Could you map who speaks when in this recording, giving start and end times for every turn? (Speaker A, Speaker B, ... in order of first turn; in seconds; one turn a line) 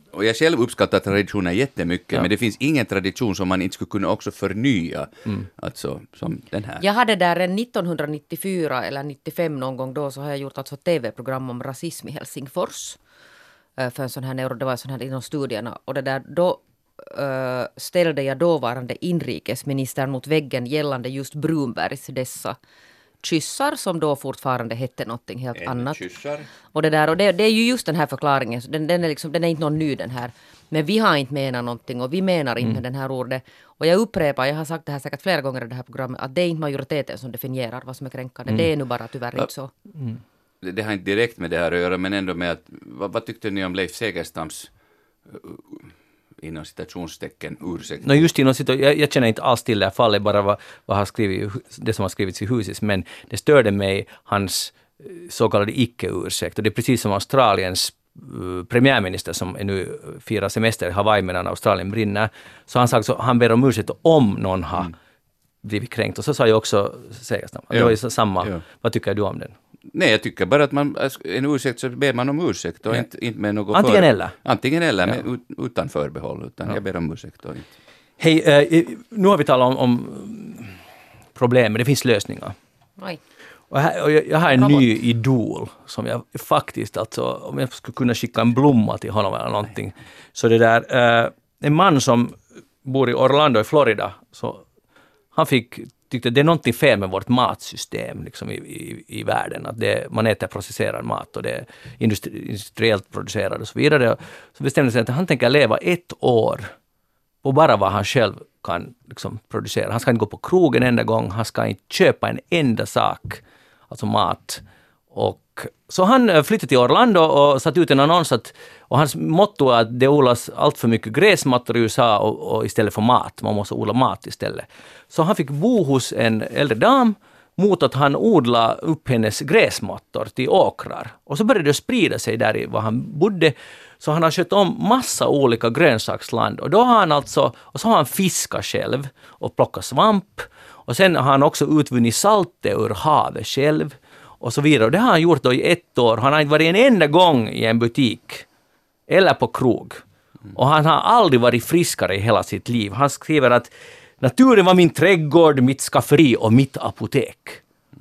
Speaker A: 0.1-6.8
Speaker B: 6.8-13.0
Speaker B: 13.8-22.6
Speaker B: 23.2-26.0
Speaker A: 25.6-26.5
Speaker B: 26.7-39.7
Speaker A: 40.6-44.7
Speaker A: 45.3-45.9
Speaker A: 46.4-48.2
Speaker C: 48.0-64.9
Speaker C: 65.6-69.5
Speaker A: 67.7-68.6
Speaker A: 69.9-77.7
Speaker C: 73.7-74.3
Speaker C: 78.2-80.8
Speaker C: 81.3-82.5
Speaker C: 83.7-94.6
Speaker B: 84.6-84.8
Speaker C: 95.3-106.7
Speaker C: 107.4-148.4
Speaker C: 149.1-150.0
Speaker C: 150.5-157.6